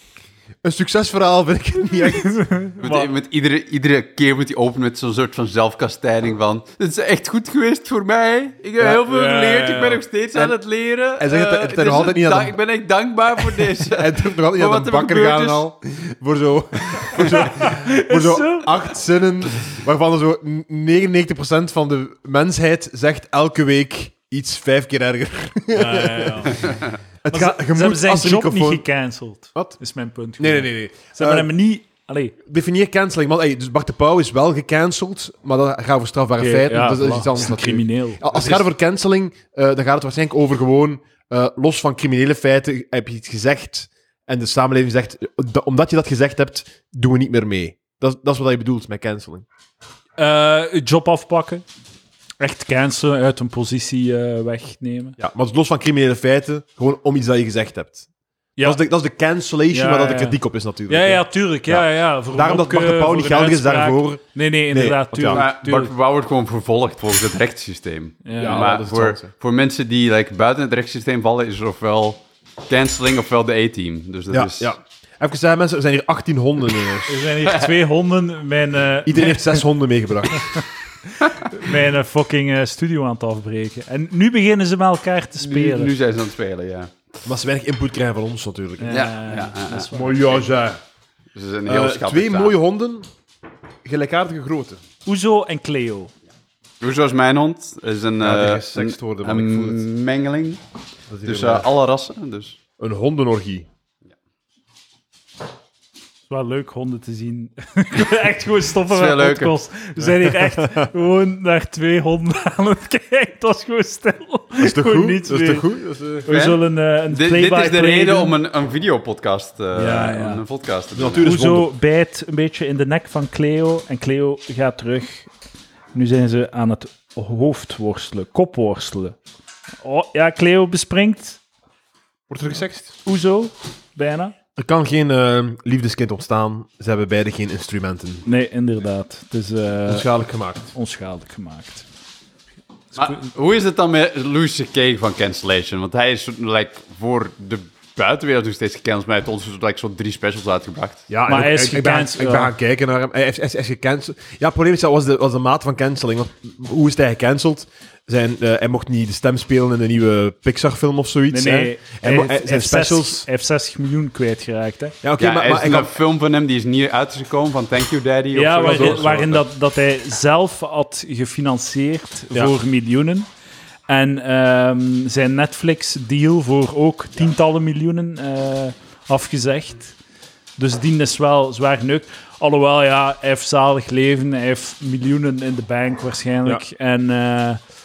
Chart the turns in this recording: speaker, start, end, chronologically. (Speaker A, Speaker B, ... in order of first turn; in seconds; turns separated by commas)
Speaker A: 0.6-2.5, Speaker B: 2.1-3.1, Speaker C: 2.8-15.7, Speaker A: 8.8-9.1, Speaker B: 9.1-10.0, Speaker A: 11.2-12.6, Speaker A: 13.6-28.9, Speaker C: 17.1-17.4, Speaker B: 17.1-18.7, Speaker B: 25.7-26.8, Speaker B: 27.3-32.4, Speaker A: 30.4-31.5, Speaker A: 32.5-49.5, Speaker B: 36.4-38.6, Speaker B: 50.2-51.6, Speaker B: 52.4-55.2, Speaker A: 55.2-58.0, Speaker A: 58.6-65.4, Speaker B: 59.7-60.4, Speaker B: 60.9-65.9, Speaker C: 65.3-74.8, Speaker B: 68.2-68.7, Speaker A: 68.4-69.3, Speaker A: 74.3-77.3, Speaker B: 77.1-79.6, Speaker C: 77.4-77.7, Speaker A: 79.1-80.6, Speaker B: 80.3-85.9, Speaker C: 85.4-87.0, Speaker A: 87.2-89.1, Speaker B: 88.8-90.2, Speaker C: 88.9-90.4, Speaker A: 89.9-90.8, Speaker C: 91.3-92.5, Speaker A: 91.7-93.1, Speaker A: 93.8-94.8, Speaker B: 95.0-96.1, Speaker C: 96.8-100.6, Speaker A: 98.2-99.8, Speaker A: 101.1-101.7, Speaker C: 101.2-102.6, Speaker A: 102.8-103.7, Speaker B: 106.3-115.7, Speaker C: 108.9-109.5, Speaker A: 110.0-110.9, Speaker A: 114.6-116.3, Speaker B: 116.3-118.4, Speaker C: 116.3-121.3, Speaker B: 119.8-120.4, Speaker A: 121.0-121.7, Speaker B: 121.2-125.3, Speaker B: 125.9-129.2, Speaker B: 129.8-131.4, Speaker A: 132.3-133.0, Speaker B: 133.0-134.3, Speaker A: 134.6-138.2, Speaker B: 138.2-140.1, Speaker A: 139.9-140.7, Speaker B: 140.7-141.9, Speaker B: 142.9-143.3, Speaker C: 143.0-151.1, Speaker A: 151.1-163.2, Speaker B: 151.3-152.5, Speaker B: 161.3-165.0, Speaker A: 165.0-165.9, Speaker C: 165.2-169.3, Speaker B: 168.3-173.3, Speaker A: 168.7-169.4, Speaker B: 173.9-180.0, Speaker B: 180.6-187.6